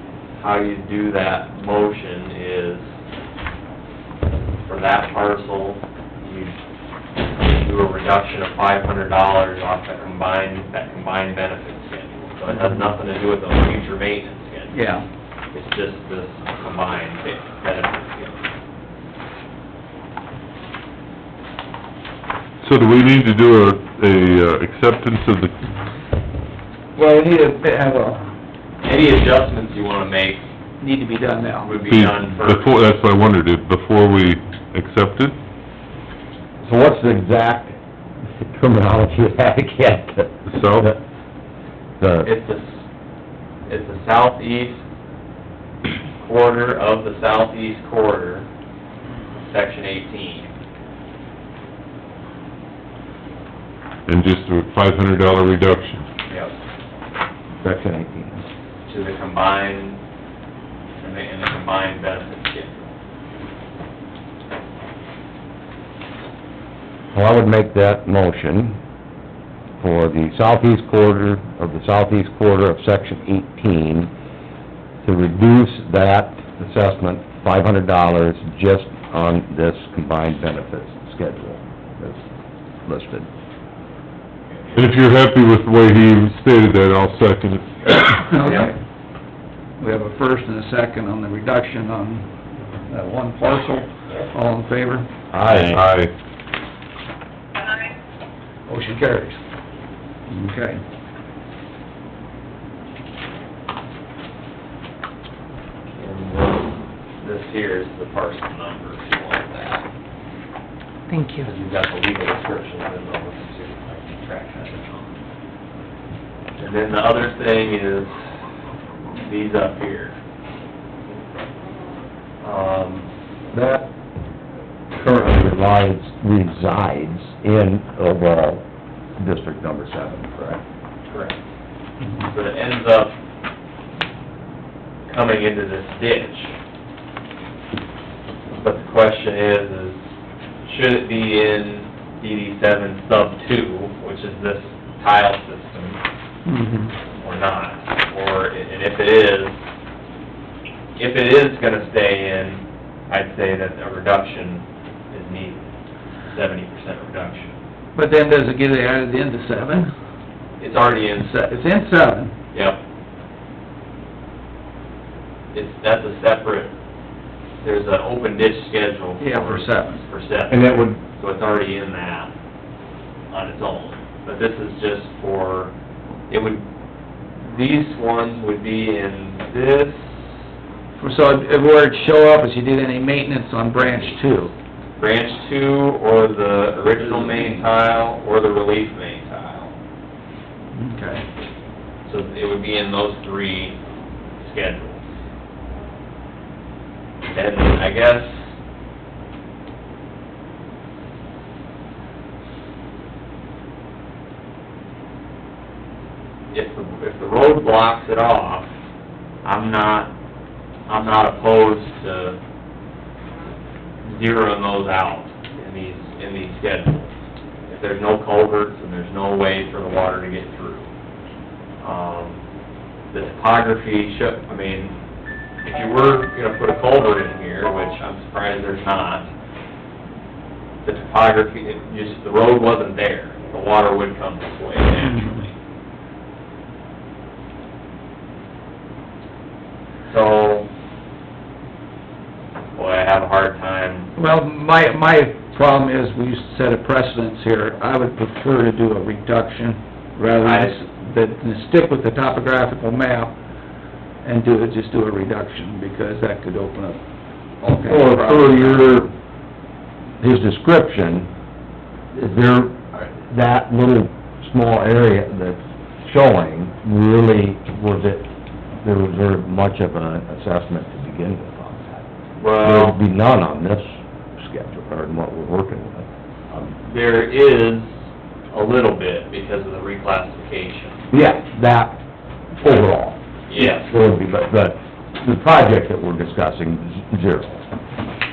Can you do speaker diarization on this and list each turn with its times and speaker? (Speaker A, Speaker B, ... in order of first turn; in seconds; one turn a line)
Speaker A: 0.3-2.9
Speaker A: 4.6-6.6
Speaker A: 7.4-14.8
Speaker B: 12.6-12.8
Speaker B: 14.7-15.1
Speaker A: 15.5-18.4
Speaker C: 22.6-25.5
Speaker B: 26.9-28.3
Speaker A: 28.8-30.5
Speaker B: 30.8-31.7
Speaker A: 31.6-32.7
Speaker C: 31.9-35.4
Speaker D: 36.6-37.8
Speaker D: 38.4-41.0
Speaker C: 40.5-40.9
Speaker D: 42.0-42.3
Speaker A: 42.2-42.9
Speaker A: 43.7-44.8
Speaker A: 46.2-48.5
Speaker A: 49.3-50.5
Speaker C: 54.1-56.0
Speaker A: 56.3-56.5
Speaker D: 57.6-58.4
Speaker A: 58.9-60.0
Speaker A: 61.0-62.9
Speaker D: 67.1-68.8
Speaker D: 69.8-74.1
Speaker D: 75.0-82.3
Speaker D: 82.9-83.3
Speaker C: 84.8-88.3
Speaker B: 88.3-88.8
Speaker B: 89.8-92.3
Speaker B: 92.8-95.1
Speaker D: 95.3-95.8
Speaker C: 95.5-96.1
Speaker B: 98.7-99.4
Speaker B: 100.3-100.8
Speaker A: 105.9-109.8
Speaker A: 111.4-115.1
Speaker A: 116.6-118.4
Speaker A: 119.1-120.2
Speaker A: 122.4-123.1
Speaker D: 123.5-123.9
Speaker D: 124.9-128.6
Speaker D: 129.2-130.6
Speaker A: 131.1-131.4
Speaker A: 132.2-133.2
Speaker A: 135.1-136.6
Speaker A: 138.6-140.0
Speaker A: 140.7-146.0
Speaker B: 146.5-146.9
Speaker A: 147.2-149.6
Speaker A: 151.0-155.7
Speaker A: 156.3-157.6
Speaker B: 157.9-159.9
Speaker A: 160.6-161.3
Speaker B: 161.2-162.3
Speaker A: 162.5-162.8
Speaker A: 165.5-166.7
Speaker A: 167.6-172.3
Speaker B: 169.2-170.0
Speaker D: 170.5-171.0
Speaker A: 173.3-175.7
Speaker A: 176.3-176.7
Speaker A: 177.4-180.2
Speaker B: 181.0-184.5
Speaker A: 185.0-189.8
Speaker B: 187.1-187.6
Speaker B: 190.7-191.3
Speaker A: 192.1-193.8
Speaker A: 194.4-195.1
Speaker A: 197.3-198.5
Speaker A: 206.5-208.7
Speaker A: 209.4-210.1
Speaker A: 210.9-212.4
Speaker A: 214.0-217.1
Speaker A: 217.7-220.9
Speaker A: 221.8-222.4
Speaker A: 223.1-224.9
Speaker A: 225.6-229.3
Speaker A: 230.8-235.5
Speaker A: 240.1-240.7
Speaker A: 242.8-244.1
Speaker B: 244.2-253.4
Speaker A: 250.3-250.8
Speaker B: 254.2-257.0
Speaker B: 257.6-259.1
Speaker D: 257.8-259.1
Speaker D: 260.2-261.3
Speaker D: 262.1-268.3
Speaker D: 268.8-272.1
Speaker A: 272.4-273.0
Speaker D: 272.6-273.8
Speaker D: 274.4-276.7
Speaker A: 276.6-278.0
Speaker A: 278.5-281.0
Speaker D: 281.1-282.0
Speaker D: 282.6-287.6
Speaker A: 283.5-283.9